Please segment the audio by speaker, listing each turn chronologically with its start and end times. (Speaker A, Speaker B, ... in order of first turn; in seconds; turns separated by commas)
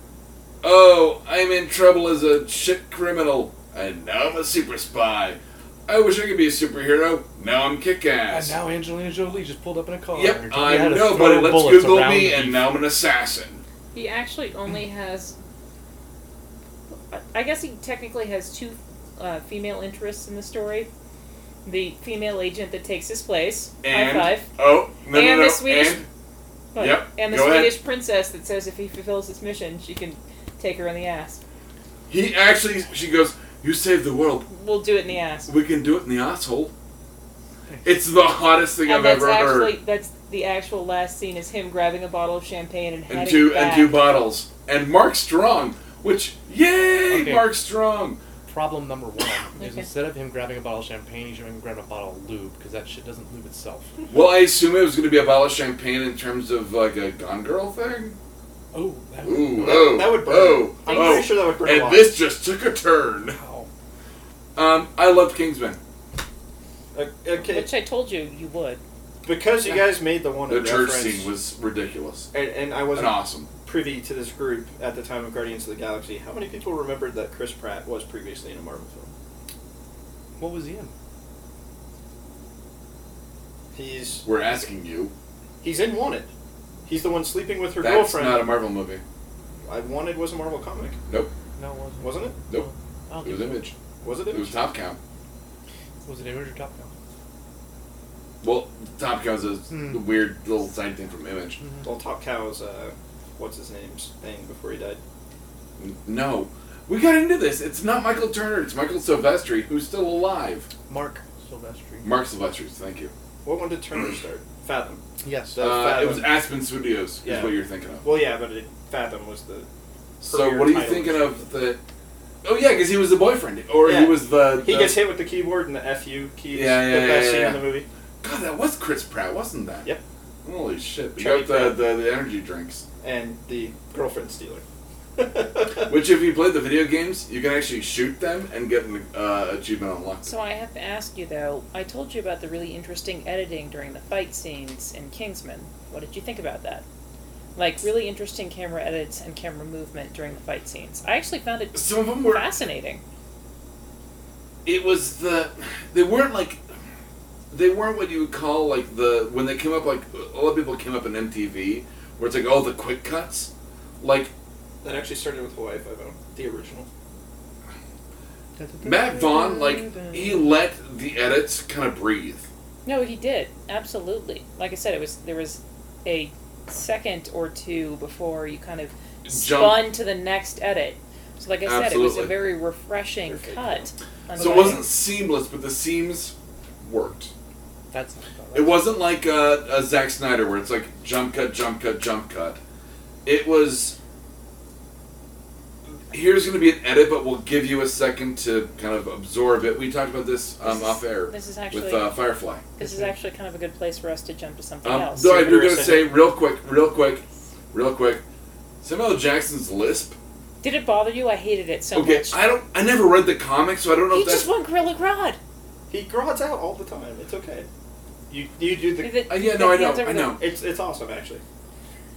Speaker A: 0.6-8.6, Speaker B: 8.3-12.7, Speaker A: 10.1-13.6, Speaker C: 13.9-15.3, Speaker C: 17.1-20.9, Speaker C: 21.6-24.5, Speaker A: 23.8-26.1, Speaker C: 25.1-26.0, Speaker C: 26.7-31.4, Speaker A: 26.8-27.8, Speaker A: 32.1-34.5, Speaker C: 34.5-35.5, Speaker A: 35.4-36.7, Speaker A: 37.8-39.8, Speaker C: 38.8-44.0, Speaker A: 43.1-48.2, Speaker B: 47.1-47.5, Speaker B: 48.5-53.9, Speaker C: 49.6-49.9, Speaker A: 54.1-58.1, Speaker B: 58.7-60.0, Speaker A: 59.2-63.4, Speaker D: 59.5-62.1, Speaker C: 60.9-61.3, Speaker B: 63.3-63.7, Speaker A: 64.5-65.8, Speaker D: 66.9-67.7, Speaker C: 67.4-68.8, Speaker D: 69.2-71.3, Speaker A: 70.5-72.3, Speaker D: 72.3-79.1, Speaker A: 72.9-73.5, Speaker B: 80.4-80.9, Speaker D: 83.7-84.2, Speaker A: 84.2-85.1, Speaker D: 85.6-86.3, Speaker D: 86.8-88.5, Speaker A: 87.8-89.0, Speaker D: 89.6-91.0, Speaker B: 91.6-93.7, Speaker D: 92.0-92.4, Speaker A: 93.2-93.7, Speaker D: 94.0-94.7, Speaker A: 94.3-95.0, Speaker B: 96.0-96.9, Speaker A: 98.4-101.6, Speaker B: 99.7-100.0, Speaker B: 101.6-101.8, Speaker D: 101.8-105.0, Speaker A: 105.8-110.7, Speaker B: 110.9-112.1, Speaker A: 112.0-113.1, Speaker D: 113.4-115.0, Speaker B: 115.2-115.6, Speaker D: 115.5-116.3, Speaker A: 115.6-118.0, Speaker D: 117.2-119.7, Speaker D: 120.2-121.5, Speaker A: 120.2-121.8, Speaker A: 122.4-125.0, Speaker D: 123.8-127.8, Speaker A: 126.5-127.7, Speaker A: 128.2-129.9, Speaker A: 130.4-132.8, Speaker D: 131.2-131.8, Speaker D: 133.0-134.6, Speaker D: 135.2-135.9, Speaker A: 135.8-140.3, Speaker C: 140.2-146.8, Speaker C: 147.5-153.0, Speaker A: 151.7-152.5, Speaker A: 154.6-156.6, Speaker A: 157.5-164.3, Speaker D: 164.8-166.9, Speaker B: 168.6-170.4, Speaker A: 168.8-172.5, Speaker C: 172.8-184.8, Speaker A: 179.2-179.8, Speaker A: 181.6-182.3, Speaker D: 183.2-183.9, Speaker A: 184.4-187.3, Speaker B: 184.4-184.8, Speaker B: 187.9-188.8, Speaker A: 188.5-192.6, Speaker A: 193.2-193.9, Speaker A: 196.1-202.7, Speaker C: 200.6-202.1, Speaker C: 202.8-205.3, Speaker B: 202.8-203.1, Speaker A: 204.8-208.2, Speaker D: 205.2-206.1, Speaker A: 208.8-210.2, Speaker C: 210.6-212.4, Speaker A: 211.9-214.5, Speaker C: 214.1-215.4, Speaker D: 215.9-217.7, Speaker D: 218.3-219.2, Speaker C: 219.0-220.4, Speaker A: 219.3-220.4, Speaker D: 220.4-221.4